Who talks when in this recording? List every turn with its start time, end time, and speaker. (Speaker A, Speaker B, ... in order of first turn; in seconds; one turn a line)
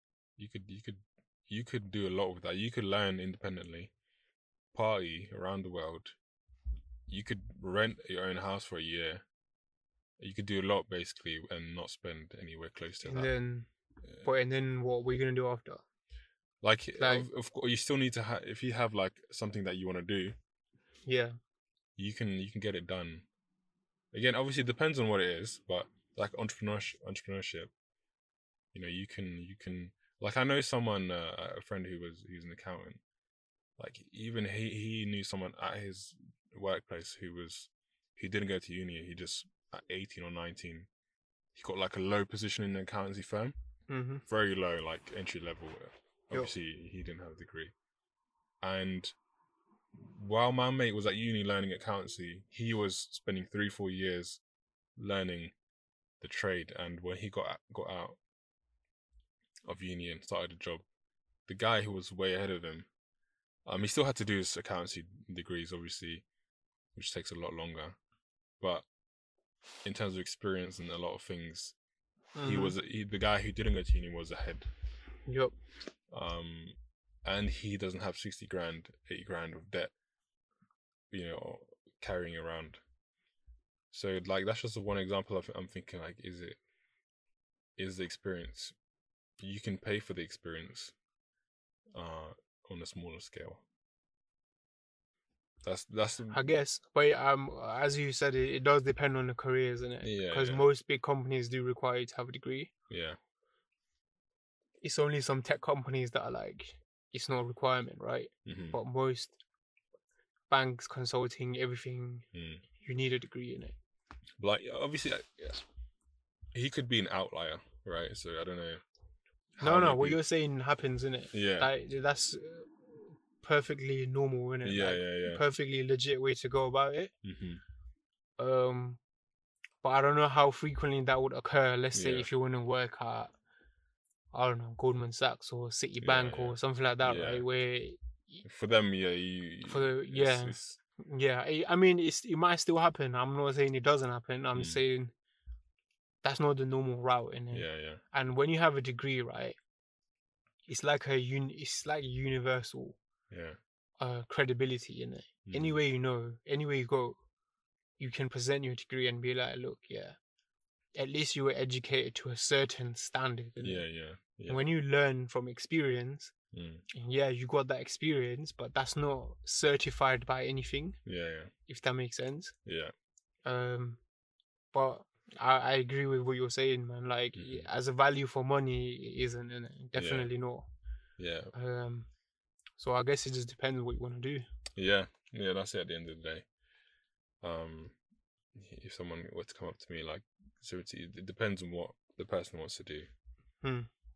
Speaker A: 0.4-3.9
Speaker A: 4.7-6.2
Speaker A: 7.1-9.2
Speaker A: 10.2-13.3
Speaker B: 13.0-13.7
Speaker B: 14.2-15.8
Speaker A: 16.6-20.4
Speaker B: 17.0-17.3
Speaker B: 21.1-21.4
Speaker A: 22.0-23.2
Speaker A: 24.1-27.7
Speaker A: 28.7-33.0
Speaker A: 33.8-40.9
Speaker A: 41.5-43.5
Speaker B: 43.9-44.2
Speaker A: 44.3-47.7
Speaker A: 48.6-49.1
Speaker A: 49.9-54.4
Speaker A: 55.0-55.5
Speaker A: 56.2-58.2
Speaker A: 59.7-60.8
Speaker A: 61.5-62.9
Speaker A: 63.6-66.2
Speaker A: 66.9-68.0
Speaker A: 68.6-68.8
Speaker A: 69.8-71.7
Speaker B: 72.3-72.7
Speaker A: 72.4-74.7
Speaker B: 75.3-75.5
Speaker A: 76.1-79.9
Speaker A: 81.1-82.8
Speaker A: 83.9-86.6
Speaker A: 87.8-88.7
Speaker A: 89.4-90.9
Speaker A: 91.9-93.6
Speaker A: 95.6-96.5
Speaker B: 96.3-102.7
Speaker A: 100.0-100.6
Speaker A: 102.9-103.2
Speaker B: 104.8-109.4
Speaker A: 108.5-108.8
Speaker B: 110.5-112.2
Speaker A: 112.3-112.6
Speaker B: 112.8-113.8
Speaker A: 114.4-115.6
Speaker A: 116.5-118.8
Speaker A: 119.6-120.2
Speaker B: 119.6-127.1
Speaker A: 121.3-121.7
Speaker A: 124.6-125.4
Speaker A: 127.2-127.6
Speaker B: 128.4-129.0
Speaker B: 129.8-133.3
Speaker A: 131.9-132.3
Speaker B: 134.3-138.4
Speaker A: 136.0-137.4
Speaker A: 138.4-140.8
Speaker B: 139.7-145.1
Speaker B: 146.2-149.6
Speaker A: 147.5-148.0
Speaker B: 150.7-153.0
Speaker A: 153.3-153.6
Speaker B: 154.0-157.2
Speaker A: 155.4-155.8
Speaker B: 158.0-160.2
Speaker B: 160.9-163.8
Speaker A: 163.6-164.6
Speaker B: 164.5-166.3
Speaker A: 166.5-166.8
Speaker B: 166.9-171.0
Speaker A: 171.0-171.5
Speaker B: 171.7-172.5
Speaker A: 172.6-172.9
Speaker B: 173.4-174.0
Speaker B: 174.7-180.7
Speaker A: 177.3-177.7
Speaker A: 179.9-180.3
Speaker A: 181.2-181.5
Speaker B: 181.5-182.1
Speaker B: 182.8-184.4
Speaker A: 184.8-186.4
Speaker A: 187.4-187.9
Speaker A: 188.5-193.1
Speaker B: 193.6-193.9